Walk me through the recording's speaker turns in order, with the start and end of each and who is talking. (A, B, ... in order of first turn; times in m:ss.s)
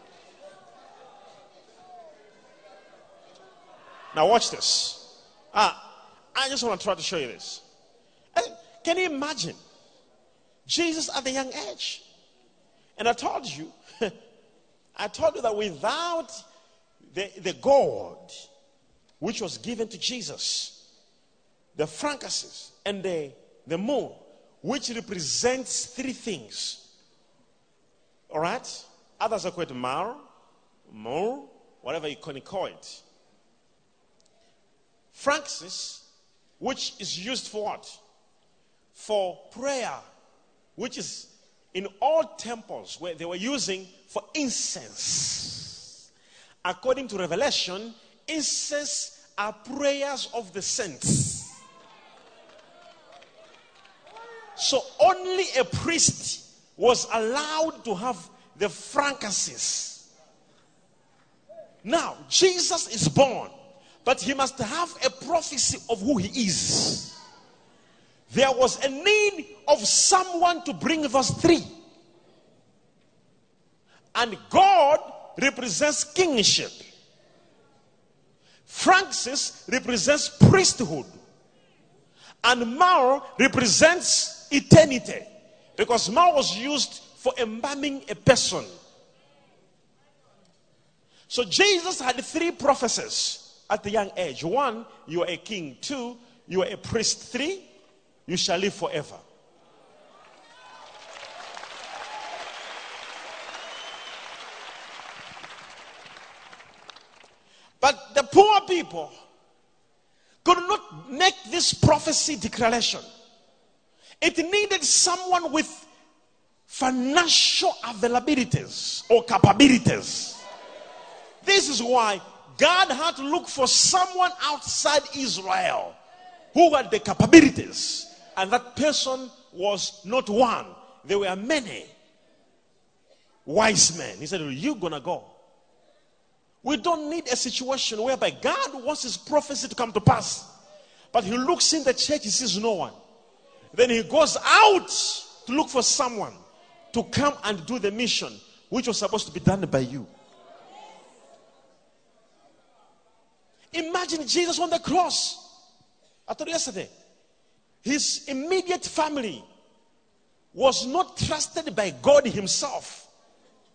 0:04.1-0:05.8 A
0:06.4-0:07.6 A
0:08.4-0:09.6 A
0:10.7-0:12.0 A
0:13.0-0:14.1 A
0:15.0-0:16.4 A
0:17.1-0:18.3 A
0:19.2-0:20.8 A
0:21.8-0:26.8 A
0:28.3-0:30.2 A
0:30.9-0:33.0 A
0:35.1-0:36.0 A
0:36.6-0:38.0 A
0:39.0-0:40.0 A
0:40.8-0:45.8 A
0:46.6-0:51.5 A
0:54.6-1:00.0 A
1:01.8-1:03.5 A
1:04.0-1:07.1 A
1:08.3-1:11.7 A
1:14.2-1:16.8 A
1:18.7-1:21.2 A
1:22.4-1:28.7 A
1:31.3-1:37.6 A
1:38.3-1:39.2 A
1:47.8-1:49.1 A
1:50.4-1:53.0 A
1:54.2-1:55.9 A
1:56.7-2:00.4 A
2:01.4-2:06.0 A
2:06.5-2:11.9 A
2:13.5-2:15.3 A
2:16.6-2:20.5 A
2:21.1-2:23.0 A
2:23.7-2:26.4 A
2:26.9-2:30.1 A
2:33.7-2:35.4 A
2:36.3-2:36.9 A
2:37.8-2:39.4 A
2:40.5-2:43.1 A